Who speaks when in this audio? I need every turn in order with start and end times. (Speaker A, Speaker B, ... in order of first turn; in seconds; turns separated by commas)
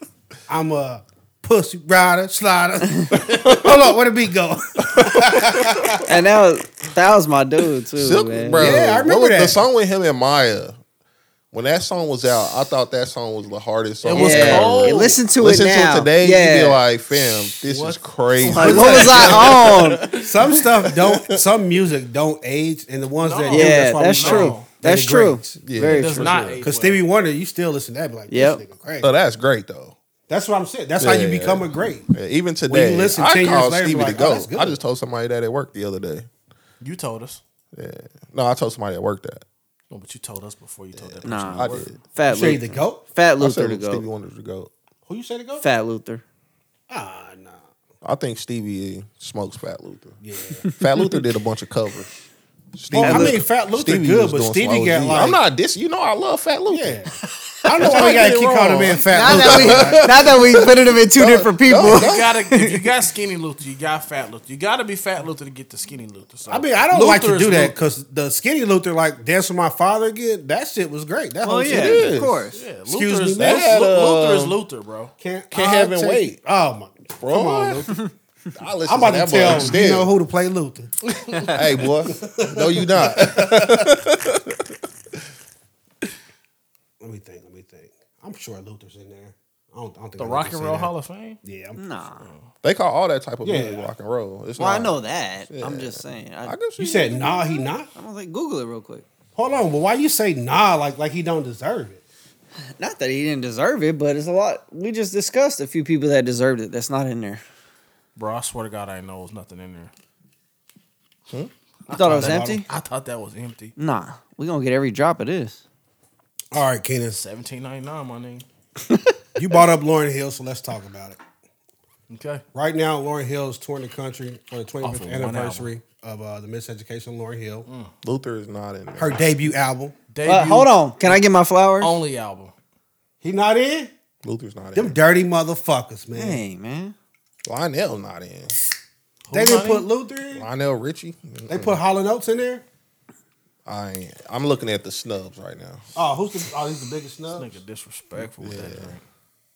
Speaker A: 0.5-6.1, Speaker B: 3.1-3.8, Speaker B: 4.9-6.0, Speaker C: 6.0-8.8, Speaker B: 8.0-10.8, Speaker A: 8.6-9.6, Speaker B: 11.5-21.4, Speaker D: 14.0-15.2, Speaker C: 14.1-16.8, Speaker D: 17.4-19.6, Speaker C: 18.5-20.1, Speaker A: 18.5-19.5, Speaker A: 20.2-25.6, Speaker D: 23.2-24.7, Speaker C: 23.5-26.6, Speaker B: 25.6-26.6, Speaker D: 25.9-27.0, Speaker A: 26.6-29.1, Speaker C: 28.3-28.6, Speaker B: 29.0-30.0, Speaker A: 30.3-32.1, Speaker B: 31.0-36.3, Speaker A: 32.7-34.8, Speaker D: 36.8-37.4, Speaker B: 37.7-39.5, Speaker D: 39.9-41.9, Speaker B: 41.0-42.0, Speaker C: 41.2-44.1, Speaker A: 42.3-43.0, Speaker B: 43.4-44.7, Speaker A: 45.1-45.7, Speaker C: 45.6-46.2, Speaker A: 46.9-47.7, Speaker B: 48.0-52.2, Speaker A: 50.2-50.6, Speaker C: 50.6-51.2, Speaker B: 52.8-57.0, Speaker A: 52.9-55.4, Speaker C: 52.9-53.4, Speaker A: 56.7-60.1, Speaker C: 57.5-58.0, Speaker B: 57.8-62.3, Speaker C: 59.1-62.9, Speaker D: 61.9-67.8, Speaker A: 66.5-72.1, Speaker C: 71.4-72.6, Speaker B: 71.7-72.4, Speaker D: 72.5-75.1, Speaker A: 72.9-73.7, Speaker B: 73.4-74.6, Speaker A: 75.2-78.1, Speaker B: 75.5-76.4, Speaker B: 77.2-77.9, Speaker B: 78.5-80.1, Speaker A: 78.9-80.9, Speaker D: 81.1-81.9, Speaker B: 81.5-84.8, Speaker A: 82.1-83.9, Speaker A: 87.0-90.9, Speaker D: 90.2-91.4, Speaker A: 91.4-91.8, Speaker C: 91.8-92.3, Speaker D: 92.2-92.5, Speaker B: 92.6-95.0, Speaker A: 93.4-93.9, Speaker C: 94.6-96.6, Speaker B: 95.5-97.7, Speaker A: 96.8-97.9, Speaker C: 97.9-99.0, Speaker A: 99.4-102.0, Speaker C: 102.8-107.4, Speaker D: 108.2-109.9, Speaker D: 111.9-113.8, Speaker C: 111.9-112.7, Speaker A: 112.0-112.6, Speaker C: 113.8-115.6, Speaker A: 116.5-117.2, Speaker D: 117.2-118.5, Speaker C: 118.9-119.1, Speaker A: 119.4-121.2, Speaker D: 122.1-122.4, Speaker A: 122.5-127.7, Speaker D: 124.8-125.7, Speaker D: 127.7-127.9, Speaker B: 128.0-129.3, Speaker A: 128.9-129.9, Speaker D: 130.1-131.2, Speaker C: 130.2-132.0, Speaker D: 131.8-132.5, Speaker A: 133.2-133.9, Speaker B: 134.2-135.0, Speaker A: 134.7-136.4, Speaker C: 136.1-136.9, Speaker B: 137.5-138.6, Speaker D: 139.3-139.9, Speaker A: 139.3-140.5, Speaker B: 140.3-141.8, Speaker A: 141.5-142.6, Speaker B: 143.7-145.8, Speaker A: 145.9-147.6, Speaker D: 147.3-149.0, Speaker B: 148.2-149.0